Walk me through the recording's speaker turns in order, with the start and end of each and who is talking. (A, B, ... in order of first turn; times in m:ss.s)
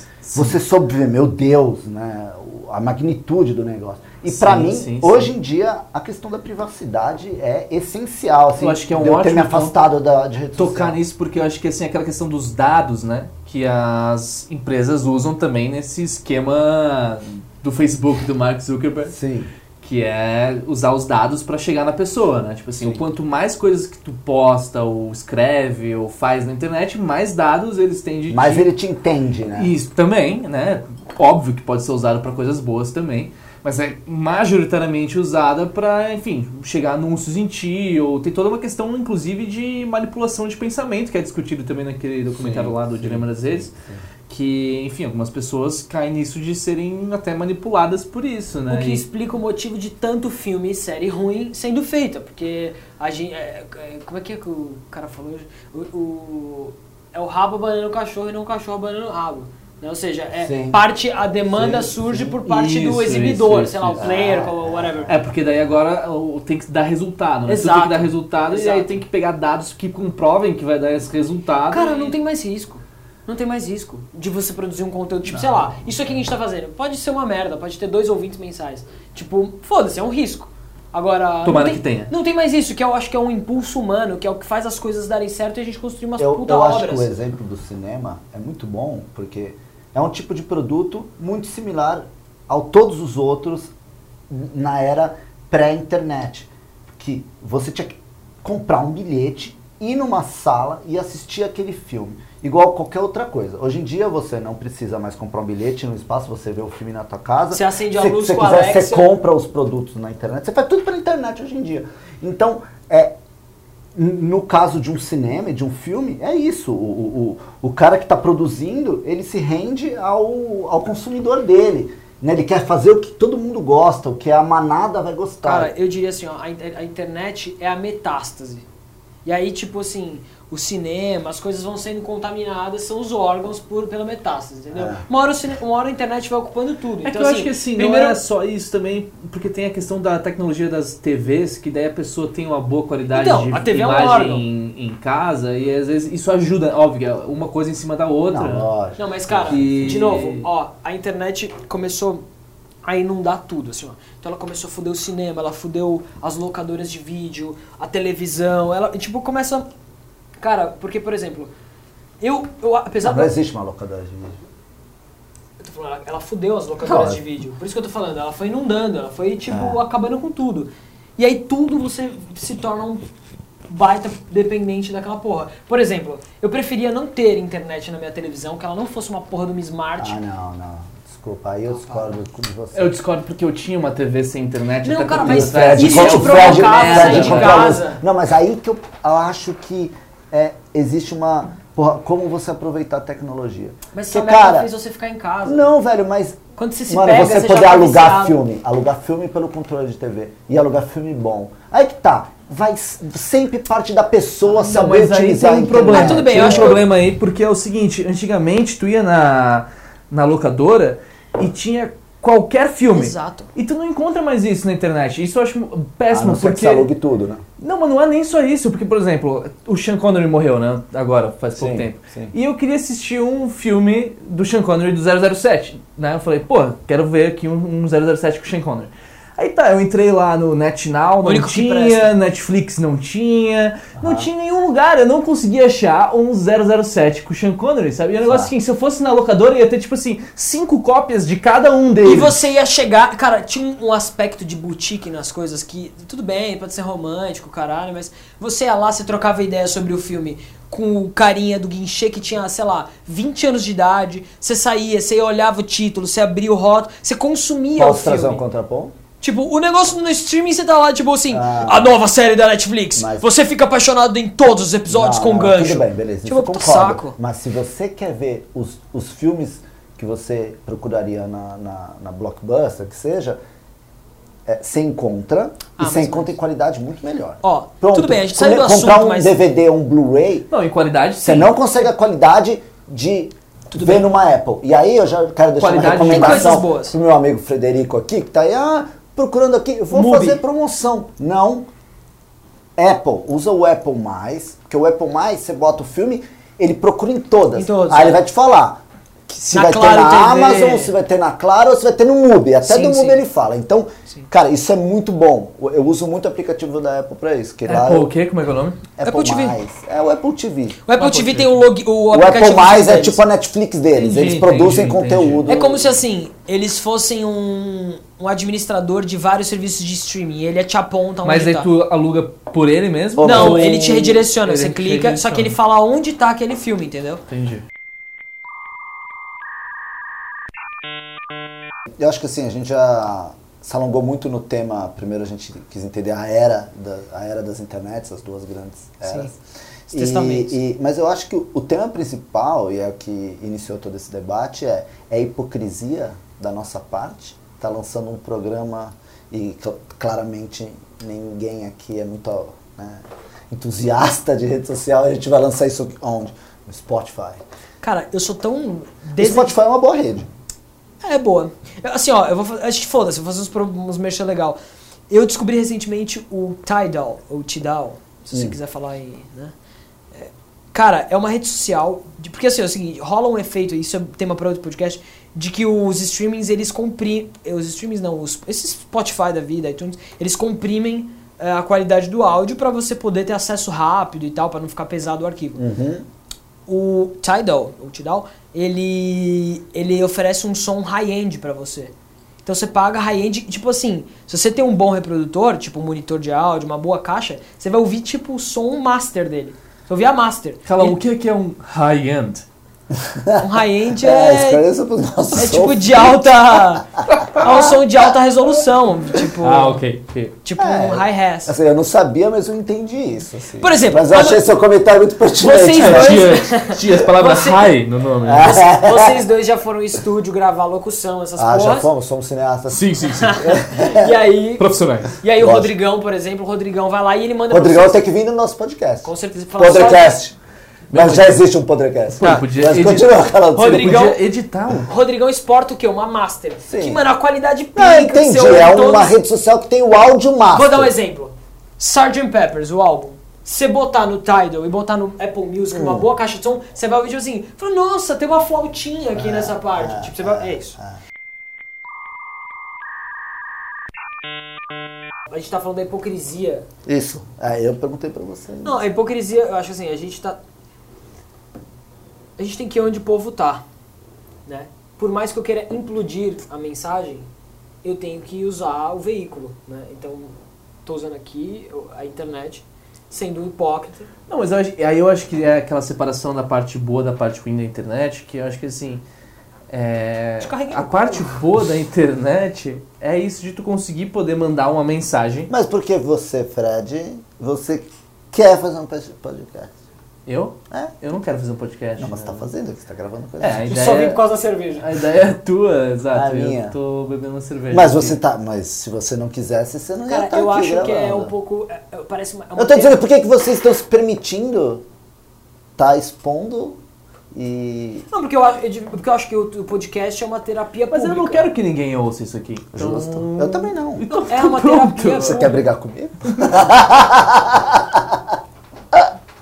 0:00.2-0:00.6 A
0:00.4-0:11.0 B
0:04.3-0:05.3 A
0:08.6-0:09.8 A
0:10.6-0:19.2 A
0:19.1-0:19.5 B
0:19.8-0:28.7 A
0:28.3-0:29.7 B
0:29.5-0:43.7 A
0:42.3-0:44.0 B
0:44.3-0:49.0 A
0:48.7-1:05.1 C
1:00.4-1:00.8 B
1:01.5-1:02.4 B
1:02.5-1:04.2 A
1:04.0-1:05.2 B
1:05.1-1:12.2 A
1:07.5-1:09.0 C
1:11.7-1:27.1 C
1:21.4-1:22.1 A
1:26.2-1:33.7 B
1:34.3-1:53.1 B
1:47.5-1:49.1 C
1:54.0-2:05.7 B
2:05.4-2:08.6 C
2:09.2-2:18.2 C
2:14.7-2:15.0 B
2:17.0-2:28.7 A
2:23.1-2:24.4 C
2:28.3-2:29.9 B
2:29.0-2:32.2 C
2:29.4-2:30.5 A
2:32.8-2:39.7 C
2:40.4-2:41.5 C
2:42.2-2:43.3 C
2:43.0-2:44.4 B
2:45.6-2:53.1 C
2:46.8-2:47.2 B
2:49.5-2:49.8 B
2:53.7-3:00.2 C
3:00.0-3:02.9 B
3:01.7-3:02.2 C
3:02.7-3:07.8 A
3:04.8-3:08.0 C
3:05.2-3:14.7 B
3:13.9-3:15.7 C
3:15.4-3:26.8 B
3:16.6-3:18.4 C
3:24.5-3:36.9 A
3:25.8-3:26.8 C
3:32.9-3:33.5 C
3:36.1-3:37.4 B
3:37.6-4:02.4 A
3:41.6-3:42.3 B
3:51.2-3:52.1 C
3:54.0-3:54.3 B
3:58.2-3:58.5 B
4:02.0-4:18.4 C
4:17.8-4:18.9 B
4:19.2-4:27.2 C
4:21.3-4:21.9 B
4:23.0-4:23.3 B
4:24.9-4:33.4 B
4:34.5-4:40.5 B
4:35.8-4:36.3 C
4:37.4-4:39.4 C
4:40.5-4:41.5 A
4:41.2-4:51.7 B
4:43.8-4:44.1 C
4:45.6-4:46.6 A
4:46.0-4:47.0 C
4:49.9-4:50.4 C
4:52.8-5:08.1 B
4:57.6-4:58.2 C
4:59.5-5:00.9 C
5:02.6-5:03.2 C
5:07.7-5:08.8 A
5:09.0-5:10.8 B
5:09.0-5:09.6 C
5:10.8-5:13.2 C
5:11.0-5:11.5 A
5:12.1-5:15.9 B
5:14.0-5:15.5 A
5:15.5-5:21.7 C
5:21.2-5:25.6 A
5:23.2-5:23.6 B
5:23.2-5:27.2 C
5:27.3-5:27.6 A
5:32.0-5:39.4 B
5:39.0-5:39.3 C
5:39.9-5:40.6 C
5:39.9-5:57.4 B
5:57.8-5:59.6 C
5:59.2-6:00.3 B
6:01.0-6:04.6 C
6:05.1-6:09.5 C
6:10.1-6:25.6 C
6:25.6-6:26.0 B
6:26.7-6:31.9 C
6:32.4-6:41.0 C
6:40.7-6:42.4 A
6:43.1-6:43.5 B
6:43.4-6:44.6 C
6:44.0-6:46.1 B
6:45.4-6:49.8 C
6:47.1-6:47.7 A
6:49.4-6:50.4 A
6:50.4-6:51.5 C
6:50.6-6:56.2 B
6:53.6-6:54.5 C
6:55.4-6:57.7 C
6:55.7-6:58.6 A
6:58.2-6:59.2 B
6:58.4-7:01.9 C
7:01.4-7:04.1 B
7:02.7-7:03.5 A
7:03.1-7:08.0 C
7:04.6-7:05.1 A
7:05.4-7:05.7 B
7:07.5-7:10.4 B
7:09.0-7:10.2 C
7:10.9-7:11.4 A
7:10.9-7:14.0 B
7:12.2-7:14.9 A
7:13.6-7:14.2 C
7:14.9-7:19.2 C
7:16.7-7:17.0 B
7:17.8-7:20.9 B
7:20.5-7:30.8 C
7:25.7-7:26.1 B
7:29.2-7:31.0 B
7:35.3-7:36.7 C
7:36.9-7:38.8 B
7:38.6-7:40.4 C
7:42.4-7:43.6 C
7:44.5-7:47.3 C
7:47.8-7:50.3 C
7:50.8-7:54.1 C
7:54.3-7:59.0 A
7:59.7-8:05.5 A
8:00.4-8:01.4 C
8:05.5-8:09.7 B
8:10.3-8:12.4 A
8:12.0-8:13.7 B
8:13.4-8:14.2 A
8:13.7-8:14.9 C
8:14.8-8:18.2 A
8:16.1-8:16.8 B
8:17.7-8:21.3 B
8:20.1-8:23.0 C
8:22.6-8:24.8 B
8:25.8-8:26.8 B
8:27.3-8:28.1 B
8:28.1-8:31.5 C
8:30.9-8:35.6 A
8:32.7-8:34.1 B
8:34.1-8:35.6 C
8:35.2-8:38.2 B
8:36.3-8:36.6 A